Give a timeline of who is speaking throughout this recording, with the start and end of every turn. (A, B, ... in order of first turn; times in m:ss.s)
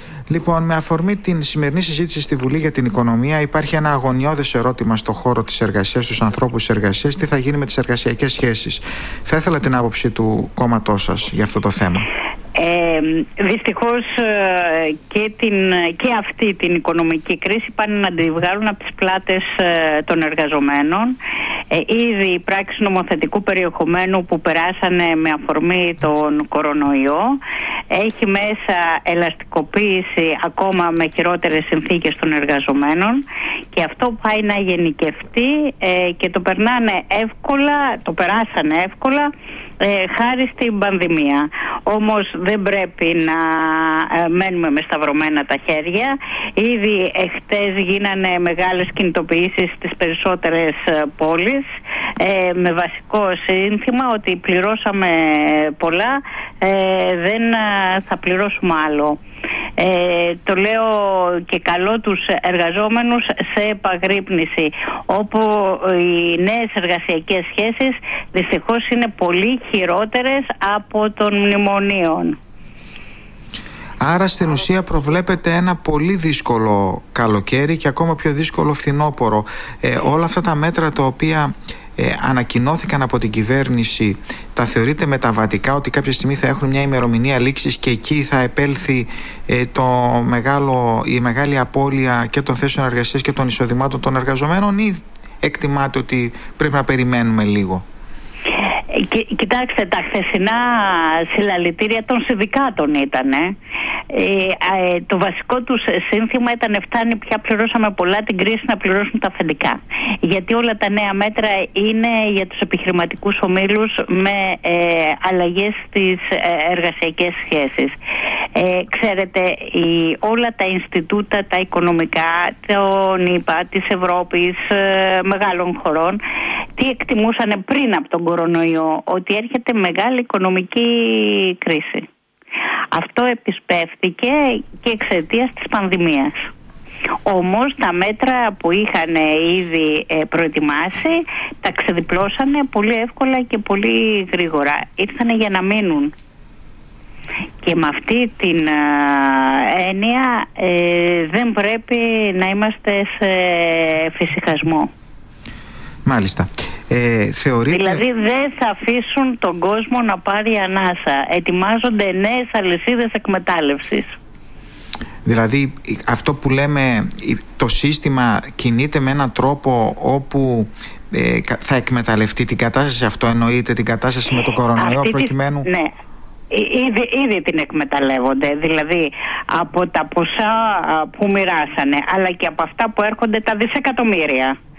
0:00.3-0:12.1 A
0:12.6-0:21.1 B
0:21.7-0:27.4 B
0:27.9-0:59.2 B
0:59.8-1:12.4 B
1:14.0-1:37.8 A
1:38.6-1:43.5 B
1:44.1-1:58.0 B
1:58.5-2:06.2 B
2:06.8-2:12.1 B
2:12.9-2:16.5 B
2:17.2-2:26.1 B
2:27.6-2:34.9 B
2:36.0-2:38.0 A
2:37.7-2:44.2 B
2:45.2-2:55.7 A
2:54.8-2:55.9 B
2:56.5-3:04.5 B